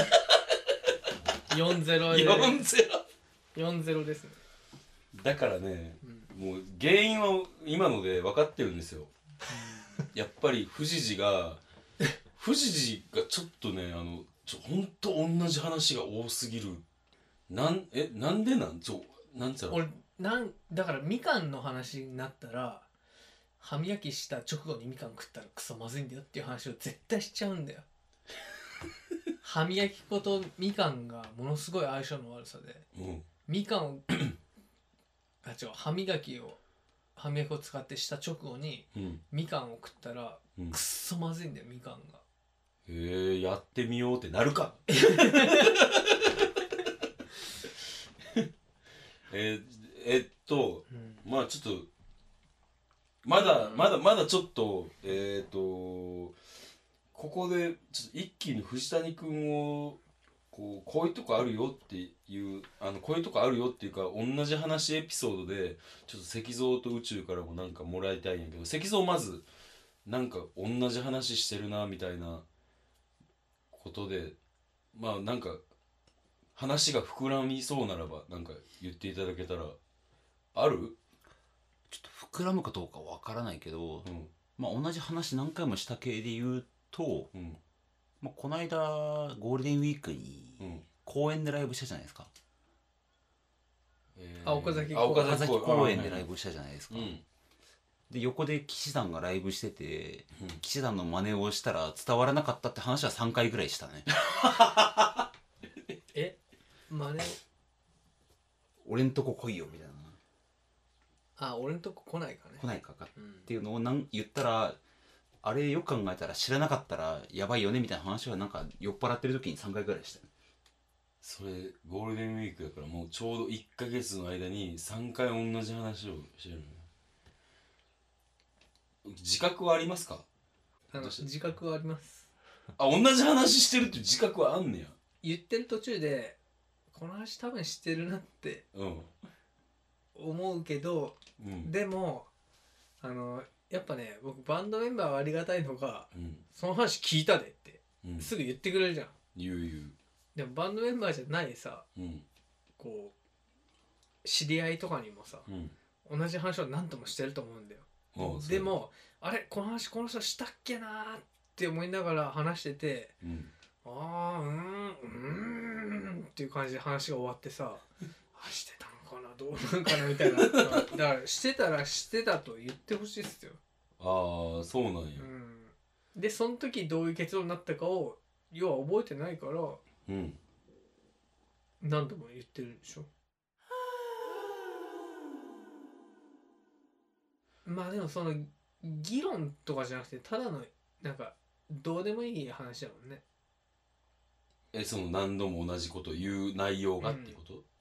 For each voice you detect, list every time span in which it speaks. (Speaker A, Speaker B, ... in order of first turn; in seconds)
Speaker A: 1.5-2.6, 3.5-4.4, 6.0-6.3, 9.5-10.0, 19.7-22.9, 23.6-27.9, 29.4-32.9, 33.5-34.3, 35.4-36.6, 37.2-42.2, 44.9-45.8, 50.9-51.3, 53.4-53.9, 94.4-95.6, 106.1-107.4, 111.4-112.7, 113.2-113.5, 130.9-132.3, 135.2-136.4, 136.9-138.7, 140.2-142.3, 143.0-149.1, 150.3-151.9, 152.8-153.2, 154.2-155.5, 156.0-163.2, 163.8-173.6, 175.2-179.8, 181.8-183.1, 187.7-193.2, 197.0-197.4
Speaker B: 2.1-3.0, 5.1-9.1, 10.1-11.6, 12.3-16.8, 17.5-19.8, 32.9-33.3, 39.0-39.2, 42.9-45.8, 49.3-51.9, 53.2-56.4, 57.1-60.0, 60.5-69.5, 70.1-72.4, 73.7-74.4, 74.9-75.6, 76.6-79.8, 80.5-81.0, 84.0-84.3, 87.3-87.6, 90.6-90.8, 94.2-96.3, 96.9-97.2, 104.4-105.1, 121.2-126.8, 129.1-130.3, 131.0-131.3, 132.8-135.0, 138.7-139.1, 141.4-141.7, 146.1-146.4, 148.0-148.3, 149.3-150.0, 152.0-152.2, 155.5-155.8, 158.1-158.8, 163.2-163.5, 170.1-170.8, 174.0-175.3, 180.1-180.4, 194.7-197.6
Speaker C: 81.9-87.3, 88.2-92.3, 95.1-97.1, 98.1-104.2, 108.8-110.2, 112.6-114.8, 115.4-120.3